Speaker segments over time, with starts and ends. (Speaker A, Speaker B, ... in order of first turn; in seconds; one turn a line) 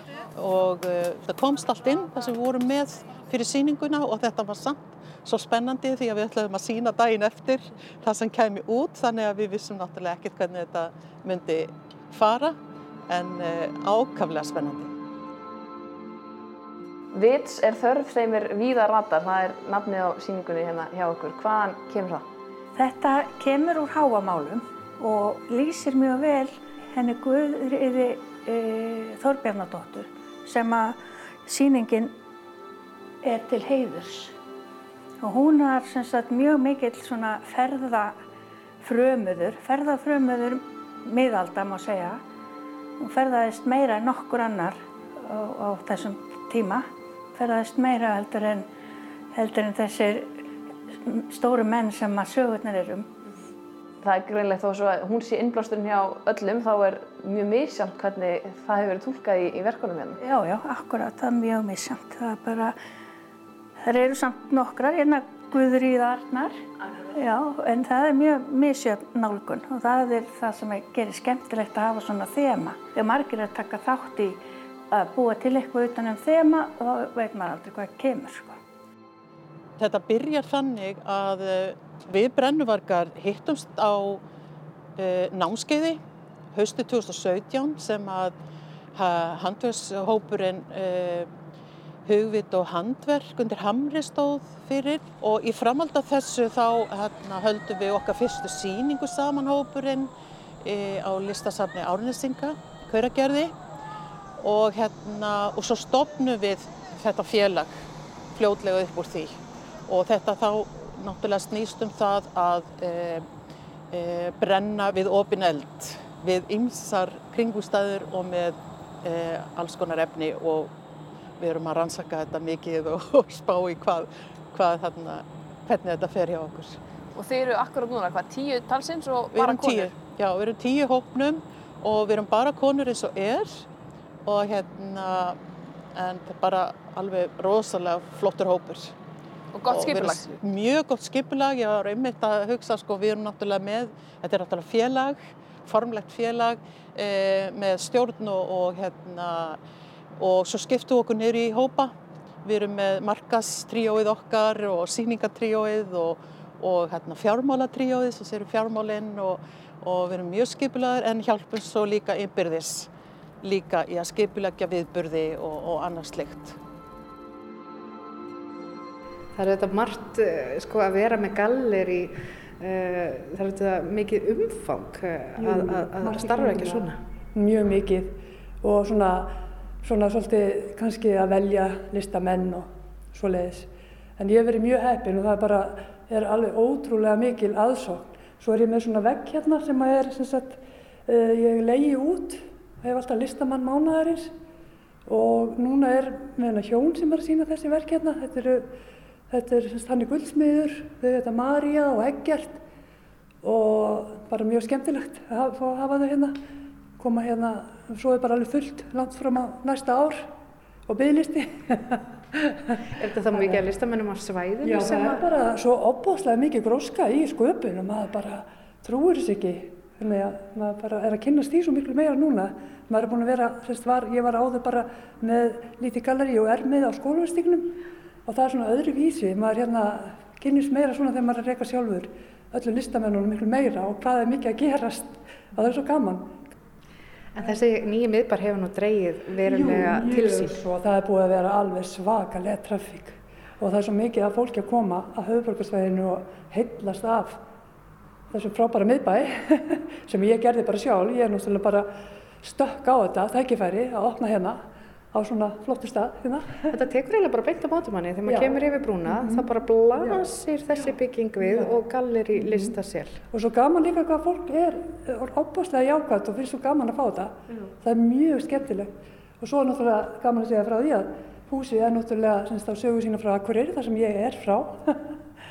Speaker A: 0.3-12.6
Speaker A: 13.1-14.9
Speaker B: 17.1-22.3
Speaker C: 22.8-32.2
Speaker C: 33.2-34.3
Speaker C: 35.2-38.2
Speaker C: 38.8-42.2
Speaker C: 43.0-48.7
Speaker C: 49.3-50.3
Speaker C: 51.0-53.1
Speaker B: 54.0-60.2
Speaker C: 60.2-62.8
Speaker C: 63.8-66.6
Speaker C: 67.1-74.4
Speaker C: 74.9-78.6
Speaker A: 79.8-84.2
Speaker A: 85.0-86.0
Speaker A: 86.5-88.3
Speaker A: 88.9-91.3
Speaker A: 92.1-100.1
Speaker A: 100.6-103.5
Speaker A: 104.4-107.8
Speaker A: 108.3-113.3
Speaker A: 113.9-120.7
Speaker A: 121.4-126.8
Speaker B: 127.1-129.9
Speaker A: 129.3-133.7
Speaker A: 134.2-135.4
Speaker A: 135.9-138.9
Speaker B: 139.5-140.4
Speaker A: 139.7-149.6
Speaker A: 150.2-151.9
Speaker A: 152.4-162.9
Speaker A: 163.4-166.6
Speaker D: 169.3-177.0
Speaker E: 175.4-194.3
Speaker E: 195.1-198.7
Speaker E: 199.3-202.6
Speaker E: 203.4-206.4
Speaker E: 207.0-210.3
Speaker E: 210.9-213.6
Speaker D: 213.0-215.3
Speaker E: 214.6-236.3
Speaker D: 237.3-240.6
Speaker E: 239.5-247.4
Speaker E: 248.3-251.9
Speaker E: 252.4-254.6
Speaker E: 255.1-256.8
Speaker D: 256.7-263.2
Speaker E: 258.2-260.9
Speaker E: 261.4-261.7
Speaker E: 262.4-262.8
Speaker E: 263.3-275.2